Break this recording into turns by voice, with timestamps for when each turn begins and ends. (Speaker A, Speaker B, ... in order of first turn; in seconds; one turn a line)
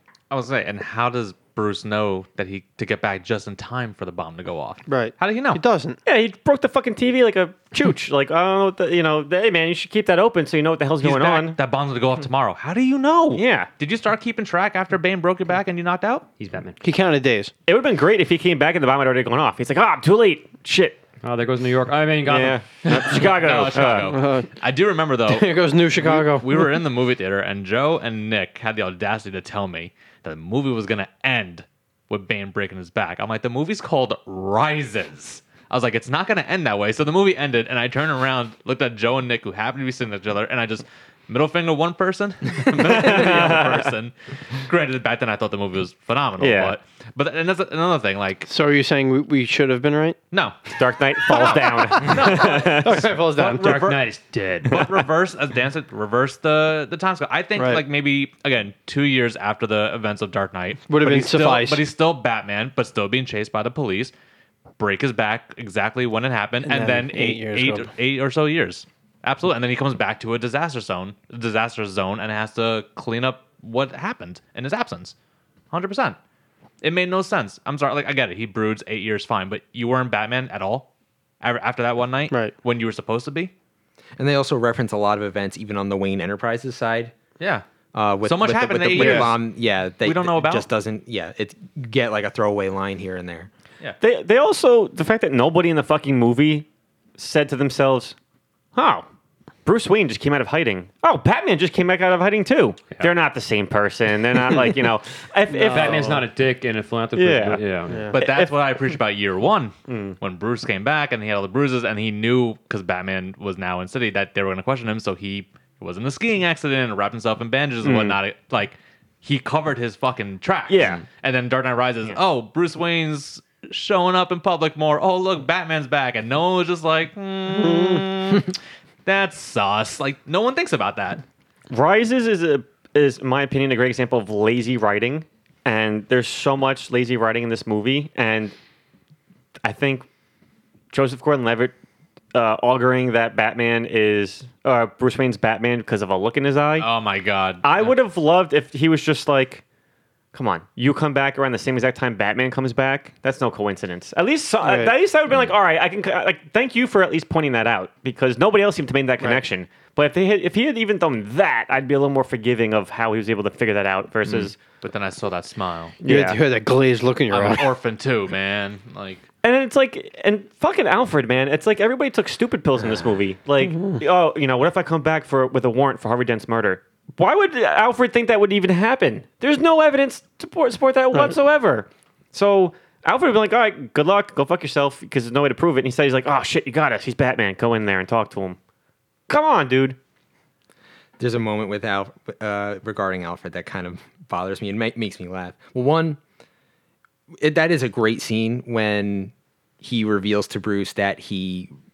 Speaker A: 0.3-5.6
Speaker B: 4.9-6.0
Speaker C: 6.0-11.6
Speaker A: 11.0-16.3
Speaker C: 13.3-13.7
Speaker D: 16.4-16.8
Speaker B: 16.8-17.5
Speaker C: 17.7-21.0
Speaker D: 21.2-22.6
Speaker C: 22.3-24.2
Speaker A: 22.8-48.5
Speaker B: 24.0-24.5
Speaker B: 25.3-26.8
Speaker C: 42.7-43.9
Speaker C: 46.4-46.8
Speaker B: 48.5-50.2
Speaker A: 50.3-54.1
Speaker C: 50.7-53.1
Speaker B: 52.0-53.8
Speaker D: 53.6-54.9
Speaker A: 54.6-64.1
Speaker B: 57.6-57.8
Speaker B: 60.9-61.8
Speaker A: 64.8-75.1
Speaker B: 66.7-67.9
Speaker A: 75.7-76.2
Speaker A: 76.8-80.9
Speaker A: 81.4-83.5
Speaker E: 84.2-87.1
Speaker A: 87.4-87.7
Speaker E: 87.9-93.5
Speaker A: 88.2-89.4
Speaker B: 89.0-89.3
Speaker A: 90.0-90.7
Speaker C: 94.0-98.2
Speaker C: 98.8-99.1
Speaker C: 99.7-106.2
Speaker B: 105.5-106.1
Speaker D: 105.7-108.2
Speaker C: 107.2-108.6
Speaker B: 107.9-108.2
Speaker A: 108.1-131.2
Speaker C: 109.9-110.2
Speaker C: 117.8-118.2
Speaker C: 120.7-121.0
Speaker B: 127.6-128.0
Speaker C: 131.7-138.6
Speaker C: 139.6-140.1
Speaker C: 140.9-141.7
Speaker C: 142.3-146.9
Speaker A: 146.8-148.0
Speaker C: 147.6-149.6
Speaker C: 150.3-164.6
Speaker B: 154.6-154.9
Speaker A: 164.8-166.0
Speaker C: 166.0-166.4
Speaker B: 166.1-167.7
Speaker A: 167.3-169.2
Speaker C: 169.4-188.6
Speaker B: 173.6-174.0
Speaker C: 189.3-190.0
Speaker E: 191.2-196.2
Speaker E: 197.4-201.7